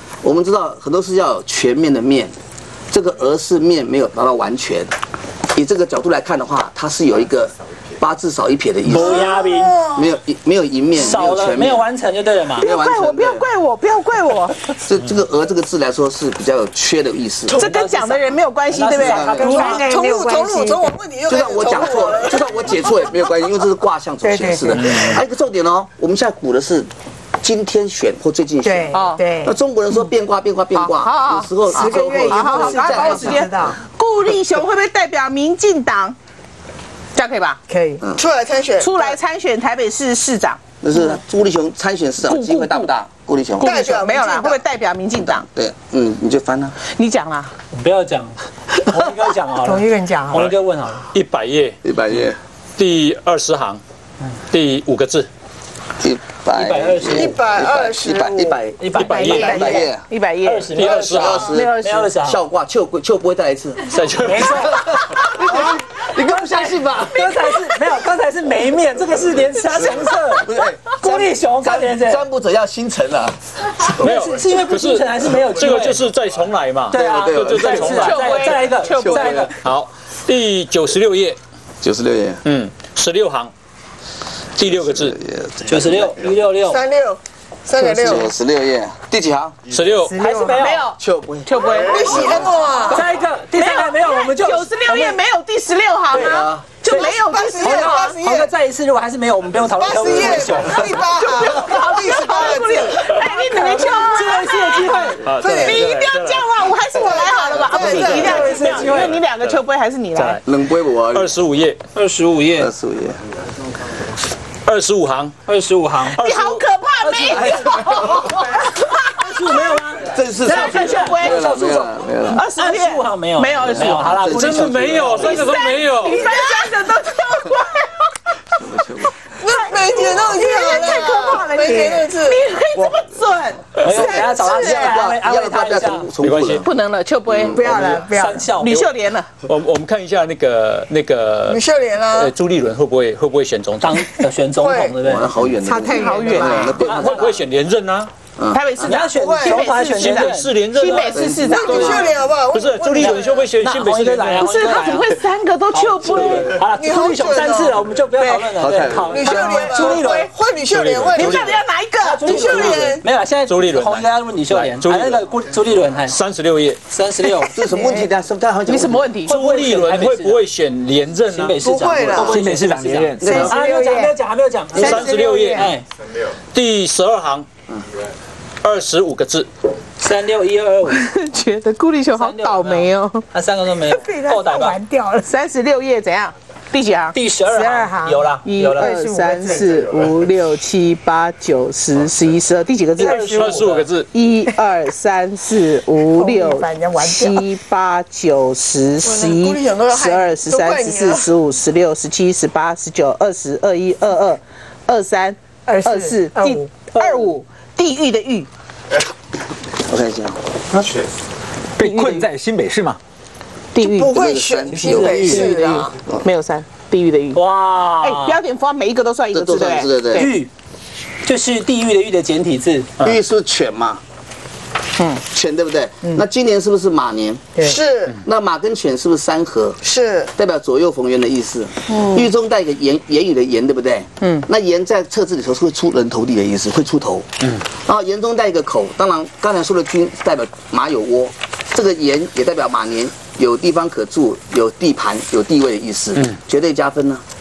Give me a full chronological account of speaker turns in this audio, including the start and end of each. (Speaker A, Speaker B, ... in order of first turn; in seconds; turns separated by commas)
Speaker A: 0.2-2.3, Speaker A: 2.9-4.9, Speaker A: 5.5-9.2, Speaker B: 8.8-9.8, Speaker C: 8.9-10.1, Speaker A: 9.9-11.8, Speaker B: 10.9-12.7, Speaker A: 12.6-13.4, Speaker D: 12.6-14.7, Speaker A: 14.8-17.6, Speaker B: 17.5-19.9, Speaker D: 17.5-19.3, Speaker A: 18.9-19.6, Speaker E: 19.2-20.9, Speaker C: 19.5-22.4, Speaker A: 21.3-26.9, Speaker E: 24.2-25.2, Speaker A: 27.4-33.6, Speaker E: 28.6-29.6, Speaker D: 28.9-29.2, Speaker D: 30.7-36.1, Speaker E: 31.7-33.8, Speaker D: 37.1-37.6, Speaker E: 37.7-38.0, Speaker C: 38.1-39.2, Speaker D: 38.8-40.6, Speaker A: 40.8-43.8, Speaker D: 42.2-42.9, Speaker C: 43.6-44.6, Speaker D: 43.6-45.5, Speaker A: 45.5-46.7, Speaker D: 46.8-47.5, Speaker B: 47.7-51.1, Speaker E: 49.6-50.5, Speaker F: 51.1-51.8, Speaker A: 51.8-52.4, Speaker F: 52.8-53.8, Speaker F: 54.5-55.3, Speaker A: 56.0-60.0, Speaker B: 56.5-57.4, Speaker C: 57.1-58.5, Speaker B: 58.8-59.9, Speaker F: 58.9-59.6, Speaker D: 59.0-60.8, Speaker C: 59.3-59.7, Speaker B: 60.4-62.4, Speaker F: 60.7-61.4, Speaker A: 60.8-61.7, Speaker D: 61.5-62.2, Speaker A: 62.2-67.5, Speaker F: 63.9-64.7, Speaker B: 64.1-64.8, Speaker B: 65.4-72.2, Speaker A: 69.7-73.8, Speaker B: 74.0-76.0, Speaker F: 74.0-78.2, Speaker B: 76.9-79.5, Speaker A: 76.9-79.5, Speaker D: 78.0-79.3, Speaker F: 79.6-81.4, Speaker A: 81.8-82.4, Speaker F: 82.4-83.5, Speaker F: 84.5-85.2, Speaker A: 84.7-85.8, Speaker B: 85.7-86.8, Speaker C: 86.6-88.3, Speaker A: 87.8-89.5, Speaker F: 89.7-90.2, Speaker E: 90.0-90.6, Speaker B: 90.1-90.9, Speaker D: 90.5-92.2, Speaker A: 91.0-92.5, Speaker C: 91.8-93.1, Speaker B: 92.8-95.2, Speaker D: 93.5-98.2, Speaker B: 96.1-102.2, Speaker A: 96.1-96.7, Speaker C: 96.9-98.5, Speaker C: 99.6-103.2, Speaker D: 101.3-110.4, Speaker B: 103.5-105.3, Speaker F: 105.2-106.6, Speaker C: 105.3-106.0, Speaker C: 106.9-109.1, Speaker B: 107.9-109.2, Speaker E: 108.4-108.9, Speaker F: 108.8-109.6, Speaker F: 110.1-110.4, Speaker A: 110.5-111.3, Speaker F: 111.1-111.8, Speaker B: 111.9-112.7, Speaker A: 112.5-113.2, Speaker F: 114.6-115.4, Speaker B: 115.5-116.2, Speaker F: 116.0-116.6, Speaker D: 116.2-119.8, Speaker B: 117.0-117.6, Speaker A: 117.3-118.3, Speaker B: 118.3-125.3, Speaker A: 120.0-122.4, Speaker D: 120.4-121.7, Speaker D: 122.3-124.2, Speaker A: 123.6-125.6, Speaker F: 124.2-126.3, Speaker D: 125.2-128.1, Speaker A: 128.6-129.1, Speaker C: 129.4-132.4, Speaker D: 129.4-134.9, Speaker E: 129.8-132.2, Speaker B: 133.8-136.1, Speaker F: 133.8-134.1, Speaker A: 133.9-136.6, Speaker F: 136.2-136.7, Speaker D: 136.6-139.3, Speaker A: 137.3-137.9, Speaker E: 137.5-138.6, Speaker B: 137.6-138.9, Speaker F: 139.4-141.6, Speaker C: 141.5-142.3, Speaker F: 142.1-144.1, Speaker B: 143.8-145.5, Speaker C: 144.6-145.0, Speaker A: 145.0-147.2, Speaker E: 145.7-146.9, Speaker D: 145.9-146.7, Speaker B: 146.3-147.4, Speaker F: 146.8-148.1, Speaker A: 148.4-148.6, Speaker D: 148.5-152.1, Speaker B: 148.8-150.7, Speaker C: 148.9-149.7, Speaker F: 149.9-151.3, Speaker A: 151.1-152.1, Speaker C: 151.3-153.5, Speaker F: 152.5-154.5, Speaker B: 153.0-160.3, Speaker D: 154.5-156.6, Speaker C: 156.7-158.4, Speaker A: 158.6-159.8, Speaker C: 159.0-161.6, Speaker F: 160.7-161.6, Speaker D: 161.1-162.3, Speaker B: 162.0-166.2, Speaker C: 162.2-163.1, Speaker F: 163.4-165.3, Speaker F: 166.0-166.8, Speaker B: 166.9-167.5, Speaker A: 167.5-169.1, Speaker D: 167.6-168.1, Speaker D: 168.7-169.4, Speaker F: 169.2-171.6, Speaker B: 169.3-170.4, Speaker B: 171.2-175.8, Speaker C: 171.6-172.5, Speaker G: 172.1-173.4, Speaker E: 173.3-174.2, Speaker E: 174.7-175.7, Speaker F: 174.7-175.8, Speaker F: 176.5-177.5, Speaker F: 178.6-179.5, Speaker B: 180.0-181.1, Speaker D: 180.9-183.2, Speaker B: 182.1-184.8, Speaker E: 183.8-185.3, Speaker D: 185.2-187.2, Speaker B: 187.1-189.0, Speaker E: 187.5-189.8, Speaker D: 188.4-193.3, Speaker F: 193.0-194.1, Speaker B: 193.0-194.0, Speaker D: 194.0-208.5, Speaker E: 196.1-197.5, Speaker C: 199.0-201.3, Speaker E: 205.6-206.9, Speaker B: 206.9-207.4, Speaker A: 209.7-210.4, Speaker G: 211.8-213.0, Speaker D: 211.8-212.3, Speaker D: 213.7-214.2, Speaker C: 213.8-216.1, Speaker A: 214.1-215.4, Speaker B: 214.7-215.7, Speaker D: 215.3-217.4, Speaker B: 217.3-218.4, Speaker D: 218.0-220.3, Speaker A: 219.3-220.3, Speaker B: 220.1-220.5, Speaker B: 221.2-222.9, Speaker A: 223.0-224.0, Speaker D: 225.0-225.2, Speaker A: 225.3-227.5, Speaker C: 227.6-228.2, Speaker A: 228.2-229.8, Speaker C: 229.8-230.3, Speaker A: 230.3-237.3, Speaker C: 231.9-232.3, Speaker D: 234.2-234.4, Speaker A: 237.8-247.2